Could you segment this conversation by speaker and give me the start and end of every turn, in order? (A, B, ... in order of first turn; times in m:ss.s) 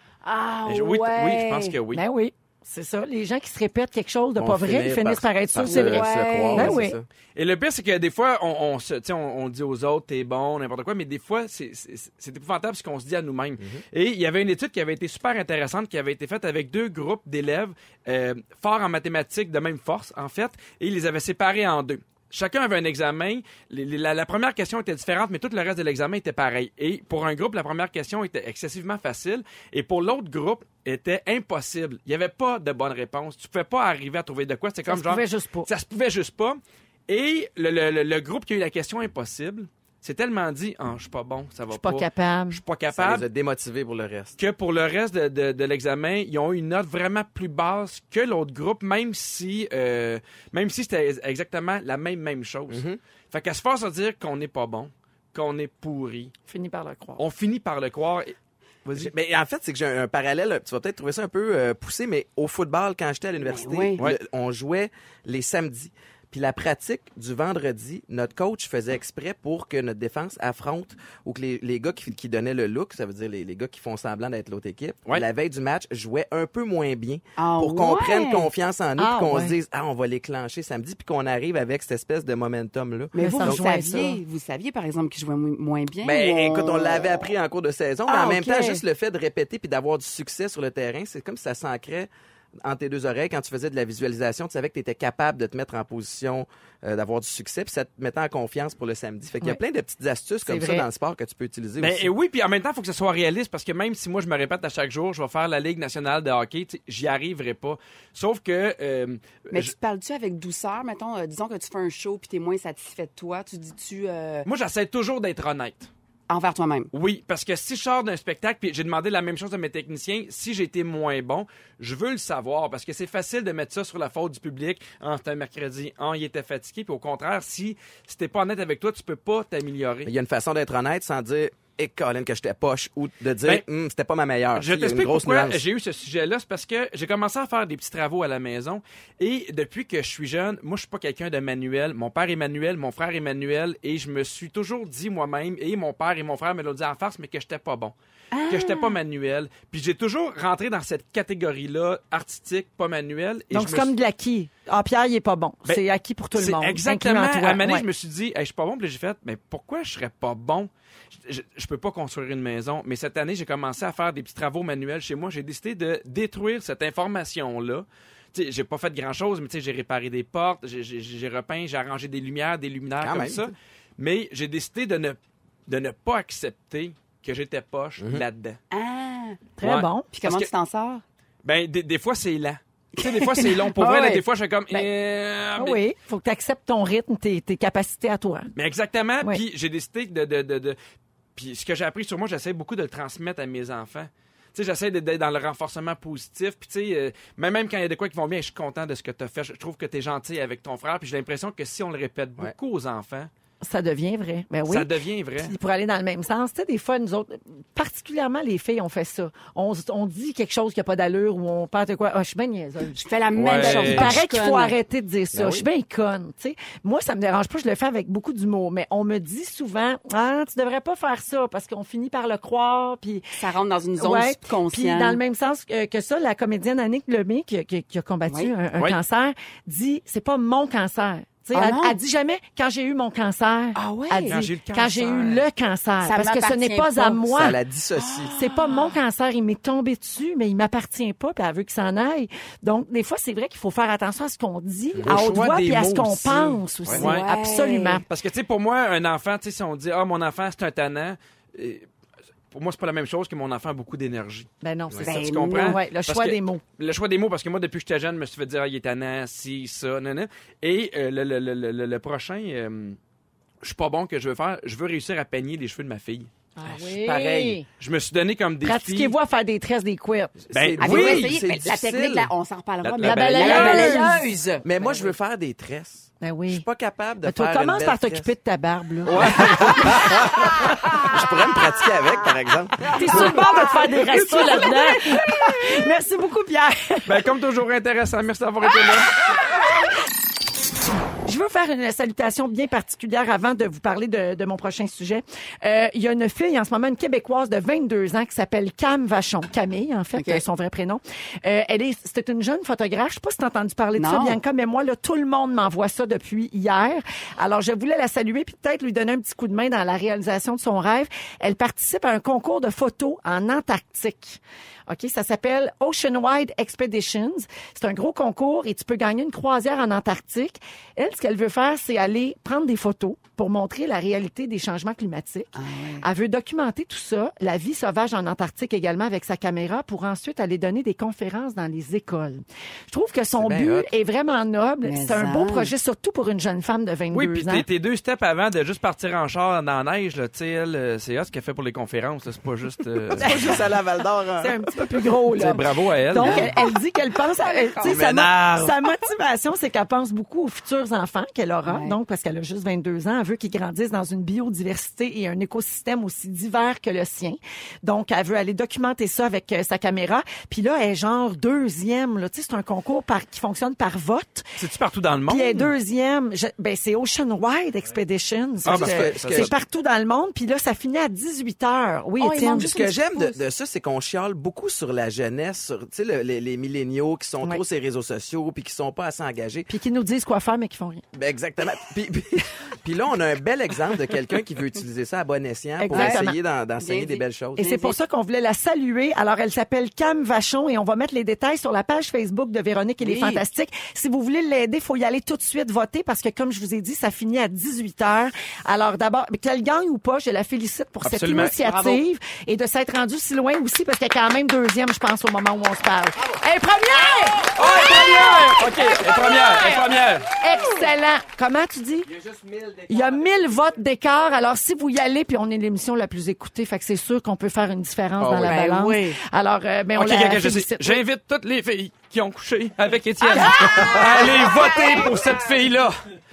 0:00.2-0:01.8 A
0:00.7-0:02.0 B
0:01.9-0:07.0 C
0:04.4-0:07.1 D
0:05.6-0:06.8 A
0:07.4-0:43.3 B
0:34.9-0:35.7 C
0:41.7-0:42.6 C
0:42.9-0:44.4 D
0:44.4-0:56.3 B
0:52.7-0:53.0 D
0:56.5-0:57.2 C
0:57.2-0:59.1 B
0:58.9-1:23.6 D
1:03.4-1:04.0 A
1:17.4-1:18.5 A
1:19.0-1:19.6 C
1:23.1-1:27.3 A
1:23.2-1:24.2 C
1:26.0-1:32.1 D
1:28.1-1:28.8 A
1:32.6-1:42.1 D
1:40.4-1:40.9 C
1:41.8-1:49.7 B
1:49.5-1:54.5 A
1:54.5-1:55.9 B
1:56.3-1:56.9 A
1:56.9-2:10.1 B
2:10.1-2:15.6 D
2:14.6-2:27.9 B
2:28.3-2:29.0 A
2:28.5-2:33.9 B
2:33.5-2:37.9 C
2:36.4-2:58.6 B
2:53.0-2:53.5 D
2:58.7-2:59.4 A
2:59.6-3:00.1 C
2:59.6-3:00.5 B
3:00.1-3:01.0 A
3:01.4-3:05.8 B
3:03.0-3:04.2 A
3:05.6-3:08.5 C
3:08.6-3:10.8 B
3:11.4-3:23.3 B
3:23.6-3:43.4 C
3:24.7-3:25.6 B
3:33.0-3:34.8 A
3:33.4-3:34.2 B
3:35.3-3:35.6 D
3:43.4-3:45.2 A
3:44.0-3:57.6 C
3:48.3-3:48.5 A
3:51.5-3:52.0 A
3:53.8-3:54.4 A
3:54.3-3:55.5 B
3:56.0-3:57.4 A
3:57.3-3:58.4 D
3:58.0-3:59.0 A
3:58.4-4:08.0 C
4:04.9-4:05.4 D
4:05.0-4:07.3 B
4:06.9-4:08.0 A
4:08.1-4:11.9 B
4:12.5-4:14.5 B
4:14.6-4:16.6 C
4:15.0-4:15.8 A
4:15.1-4:23.0 B
4:23.6-4:26.3 B
4:26.6-4:27.6 C
4:27.1-4:27.6 D
4:27.8-4:29.1 B
4:28.6-4:30.4 C
4:30.5-4:32.3 D
4:30.5-4:31.4 B
4:30.8-4:35.1 A
4:32.8-4:34.0 B
4:33.0-4:34.3 C
4:34.6-4:38.3 D
4:36.2-4:36.6 C
4:37.2-4:40.3 C
4:39.1-4:40.3 B
4:39.2-4:43.4 D
4:42.9-4:47.3 C
4:43.1-4:44.7 A
4:47.1-4:49.1 B
4:51.2-5:37.6 C
5:00.2-5:00.4 A
5:04.0-5:04.4 A
5:25.5-5:26.1 A
5:33.4-5:33.9 D
5:34.8-5:35.7 A
5:37.1-5:43.5 B
5:43.1-5:44.8 D
5:43.2-5:43.7 C
5:44.4-6:04.5 C
5:45.3-5:46.5 B
5:46.2-5:46.7 A
5:47.4-5:48.0 A
5:47.9-5:48.8 B
5:51.6-5:52.0 A
6:04.6-6:05.7 B
6:05.3-6:12.8 C
6:08.6-6:09.5 D
6:08.6-6:09.5 B
6:12.2-6:13.4 A
6:12.5-6:19.7 D
6:19.7-6:21.0 C
6:21.1-6:27.7 D
6:25.8-6:26.4 C
6:25.9-6:28.0 A
6:27.6-6:49.9 C
6:33.0-6:33.4 A
6:41.0-6:41.6 B
6:47.5-6:50.3 B
6:50.4-6:52.1 C
6:52.8-7:01.0 C
6:58.2-6:58.6 D
6:58.5-6:59.2 A
7:00.0-7:06.0 B
7:03.3-7:04.6 C